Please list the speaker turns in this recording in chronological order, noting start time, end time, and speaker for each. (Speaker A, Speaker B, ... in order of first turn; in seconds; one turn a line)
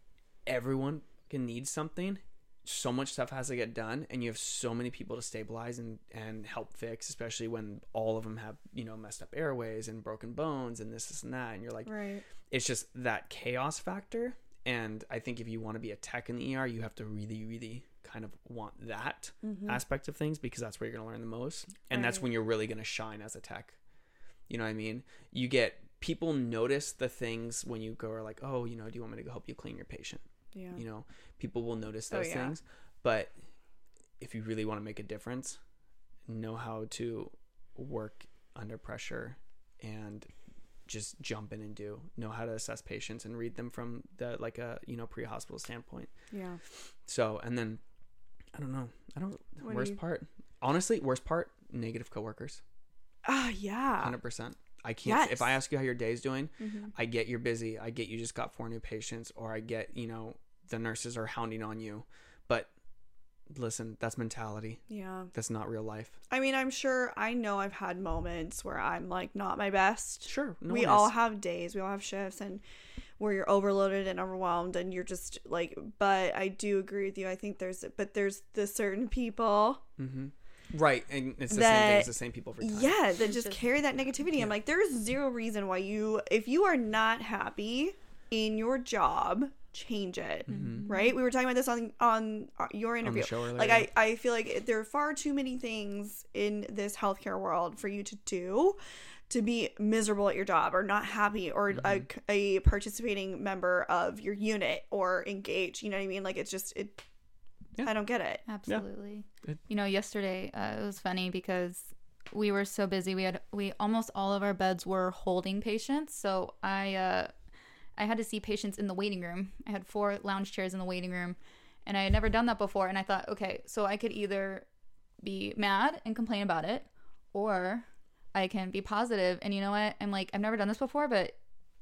Speaker A: 0.5-11.9
Speaker B: 11.8-12.2
Speaker A: 12.4-23.8
Speaker B: 19.4-19.8
Speaker B: 21.9-22.2
Speaker A: 24.5-30.2
Speaker B: 30.5-30.8
Speaker A: 30.7-33.3
Speaker B: 32.1-32.5
Speaker A: 34.2-35.6
Speaker A: 36.2-40.3
Speaker A: 40.9-46.1
Speaker B: 46.3-46.6
Speaker A: 46.6-47.8
Speaker A: 48.5-52.6
Speaker B: 49.6-50.0
Speaker B: 53.2-54.1
Speaker A: 54.0-62.7
Speaker B: 55.0-55.5
Speaker B: 56.6-56.9
Speaker A: 63.5-64.8
Speaker B: 64.9-65.3
Speaker A: 65.3-66.2
Speaker B: 66.3-72.6
Speaker A: 70.3-71.1
Speaker B: 73.2-79.8
Speaker A: 80.0-82.9
Speaker B: 81.5-98.8
Speaker C: 83.3-83.5
Speaker A: 90.5-90.9
Speaker C: 90.5-91.1
Speaker A: 93.0-93.9
Speaker B: 99.3-107.0
Speaker A: 101.7-102.0
Speaker B: 107.8-108.4
Speaker C: 108.5-117.3
Speaker C: 118.0-124.7
Speaker C: 125.2-131.3